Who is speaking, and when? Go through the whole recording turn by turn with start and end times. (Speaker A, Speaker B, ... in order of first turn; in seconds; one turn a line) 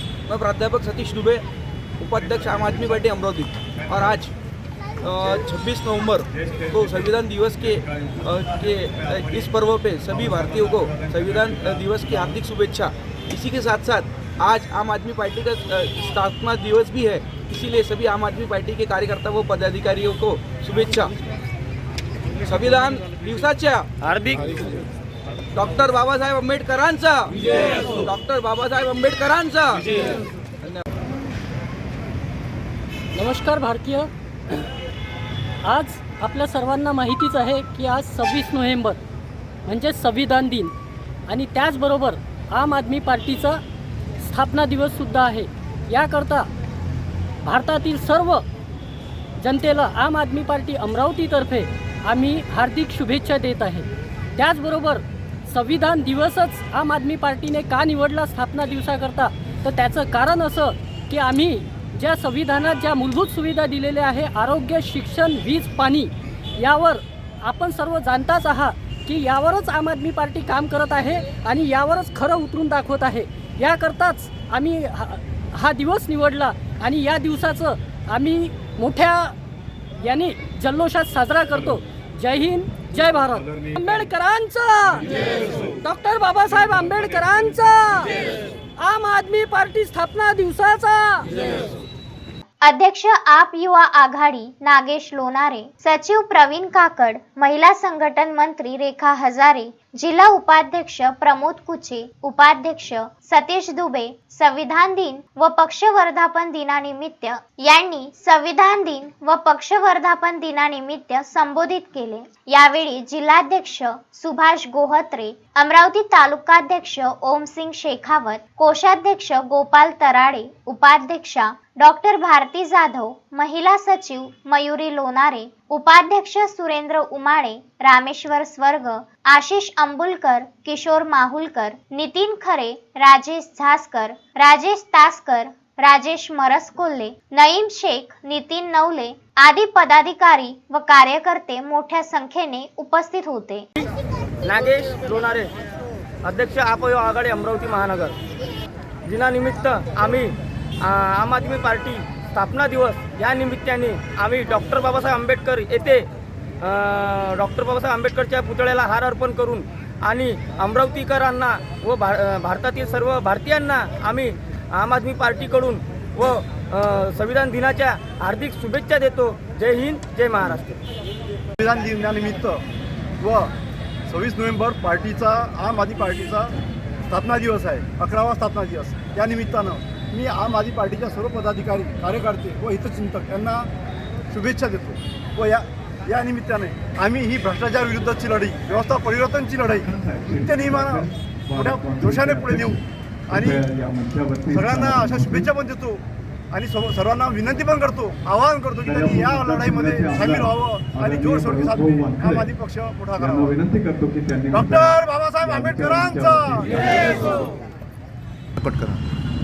Speaker A: 0.3-1.4
Speaker A: 2.0-4.3
Speaker A: 5.0-21.1
Speaker A: 22.4-23.9
Speaker B: 24.0-24.7
Speaker A: 25.5-29.8
Speaker C: 33.1-34.1
Speaker C: 35.6-39.0
Speaker C: 39.6-40.7
Speaker C: 41.3-43.6
Speaker C: 44.2-46.5
Speaker C: 47.5-48.4
Speaker C: 49.4-79.3
Speaker C: 80.0-91.4
Speaker D: 92.6-143.7
Speaker B: 144.4-145.5
Speaker B: 146.2-148.2
Speaker B: 149.0-156.1
Speaker B: 156.6-170.8
Speaker E: 171.6-172.6
Speaker E: 173.2-173.5
Speaker E: 174.1-176.5
Speaker E: 177.1-183.7
Speaker E: 184.3-189.8
Speaker F: 189.8-195.5
Speaker E: 190.4-192.8
Speaker E: 193.3-193.6
Speaker E: 194.5-203.6
Speaker F: 198.8-202.5
Speaker F: 203.2-207.2
Speaker E: 204.5-207.3
Speaker E: 208.6-209.0